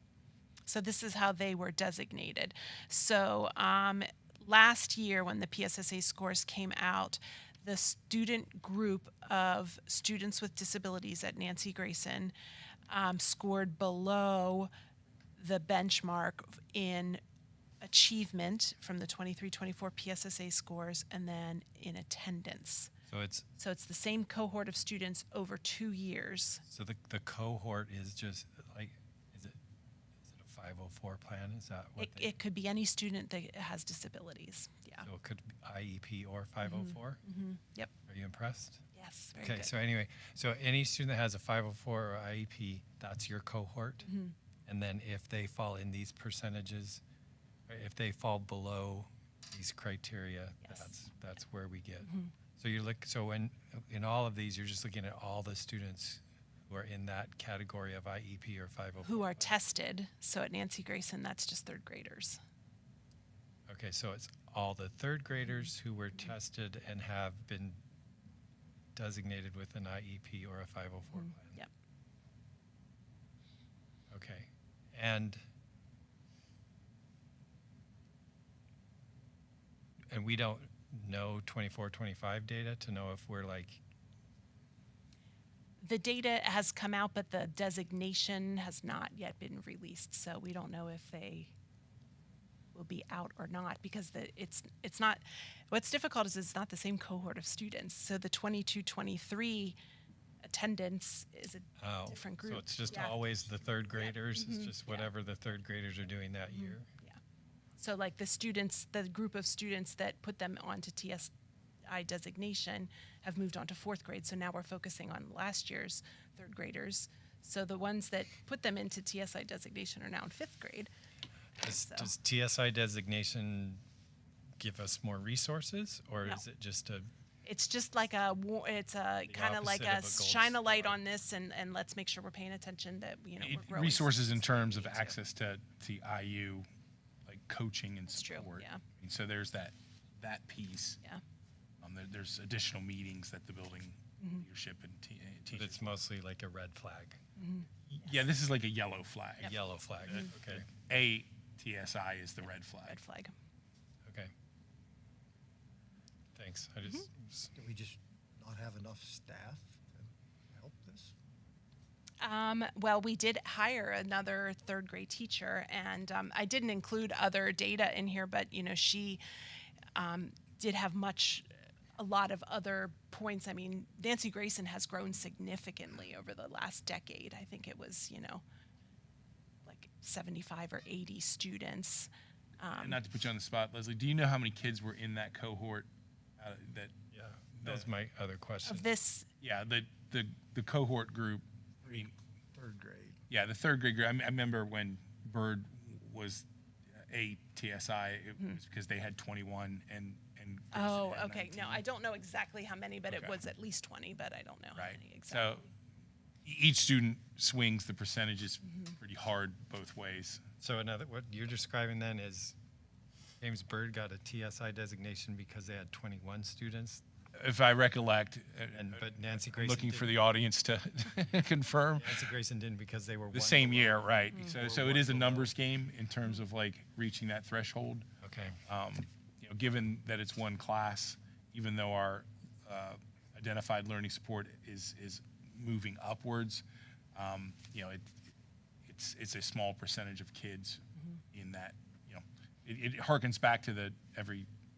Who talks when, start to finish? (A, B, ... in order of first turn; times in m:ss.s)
0:00.6-0:12.3 A
0:12.9-0:14.7 A
0:15.4-0:17.2 A
0:17.8-0:22.9 A
0:23.1-0:23.4 B
0:23.6-0:26.6 A
0:26.7-0:29.6 B
0:30.2-0:32.3 B
0:32.0-0:35.1 A
0:35.0-0:37.2 B
0:36.6-0:37.9 A
0:38.1-0:38.8 B
0:38.9-0:39.7 A
0:39.4-0:44.1 B
0:44.0-0:44.3 A
0:44.7-0:47.0 B
0:47.7-0:59.4 B
0:59.0-1:02.4 A
1:03.7-1:07.8 B
1:09.0-1:11.6 B
1:11.1-1:11.7 A
1:14.1-1:15.4 B
1:20.1-1:23.8 B
1:25.8-1:31.5 A
1:32.7-1:39.8 A
1:40.4-1:43.2 A
1:41.8-1:46.9 B
1:43.9-1:45.1 A
1:46.5-1:47.2 A
1:47.8-1:51.3 A
1:51.9-2:00.9 A
2:01.6-2:02.1 A
2:01.6-2:03.8 B
2:04.6-2:07.1 B
2:07.4-2:15.2 A
2:09.3-2:11.0 B
2:13.4-2:16.6 C
2:17.2-2:21.0 C
2:18.1-2:18.8 A
2:21.8-2:25.9 C
2:25.5-2:27.2 B
2:27.4-2:28.1 A
2:27.9-2:33.0 C
2:29.4-2:30.7 B
2:32.8-2:33.3 A
2:36.3-2:37.5 B
2:37.6-2:41.1 D
2:42.2-2:49.2 A
2:49.9-2:58.4 A
2:59.6-3:03.0 A
3:02.7-3:06.9 C
3:07.1-3:08.9 B
3:07.6-3:07.9 C
3:08.6-3:09.3 A
3:09.4-3:12.1 C
3:12.5-3:13.2 D
3:13.3-3:16.4 C
3:17.0-3:21.8 C
3:20.7-3:25.5 A
3:23.1-3:23.4 C
3:24.8-3:25.6 C
3:26.4-3:30.4 C
3:30.6-3:32.6 B
3:33.4-3:37.0 B
3:37.3-3:42.2 C
3:38.7-3:40.1 B
3:42.0-3:45.5 B
3:43.3-3:48.1 C
3:44.6-3:45.2 D
3:48.2-3:48.6 B
3:48.7-3:56.6 C
3:57.1-3:58.1 C
3:58.8-4:04.5 C